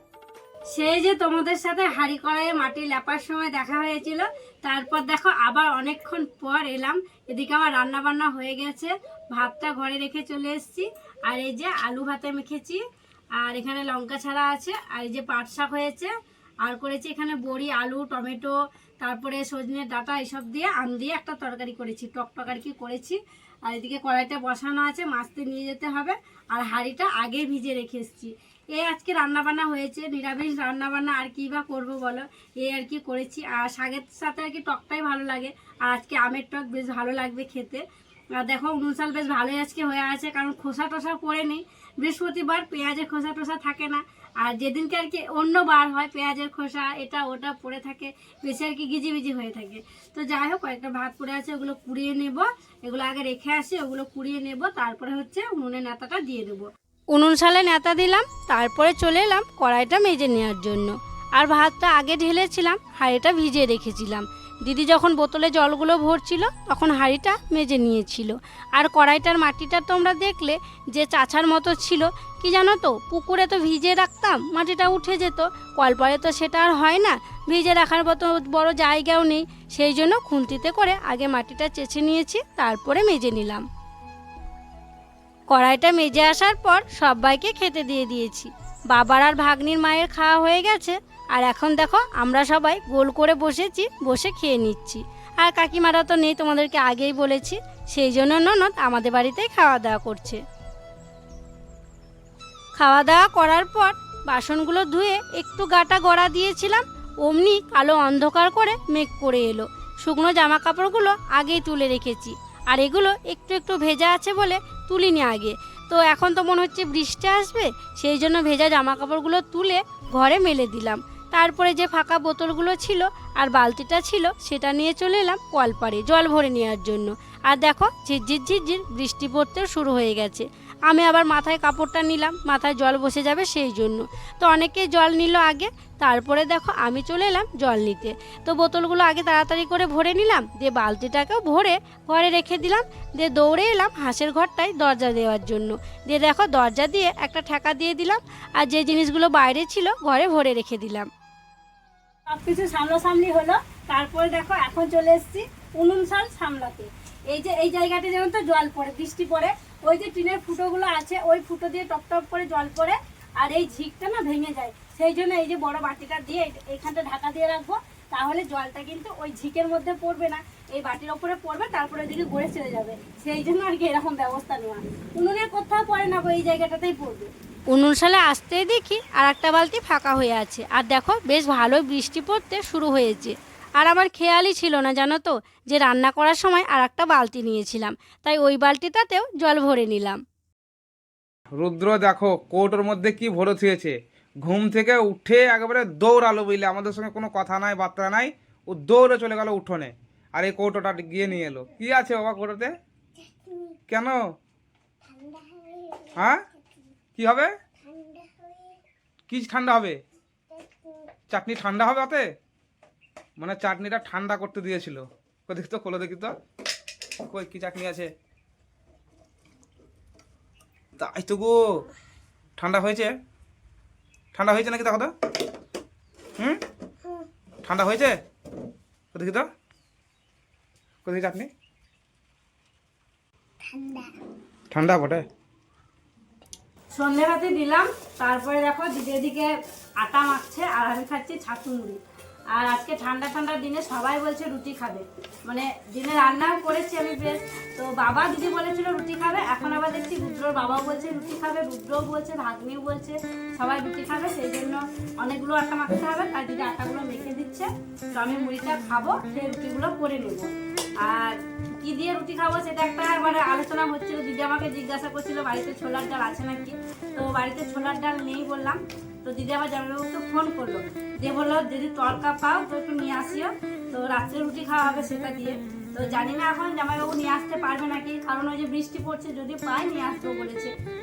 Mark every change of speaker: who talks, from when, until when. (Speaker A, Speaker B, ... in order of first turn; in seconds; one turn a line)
Speaker A: 0.7-12.8
Speaker A: 13.4-16.1
Speaker A: 16.6-83.7
Speaker A: 85.5-100.4
Speaker A: 102.8-151.1
Speaker A: 152.3-190.2
Speaker B: 191.6-202.7
Speaker C: 203.2-203.8
Speaker B: 203.9-204.2
Speaker C: 205.1-206.2
Speaker B: 206.2-206.4
Speaker B: 207.2-207.5
Speaker C: 207.9-208.8
Speaker B: 209.3-210.0
Speaker C: 210.5-211.1
Speaker B: 211.3-212.3
Speaker B: 213.4-216.3
Speaker B: 217.3-218.1
Speaker B: 221.0-221.8
Speaker B: 222.6-223.1
Speaker B: 224.3-225.1
Speaker B: 227.7-228.2
Speaker B: 229.1-229.5
Speaker B: 231.1-231.5
Speaker C: 233.7-234.2
Speaker B: 234.7-235.3
Speaker A: 236.9-242.0
Speaker A: 242.5-280.7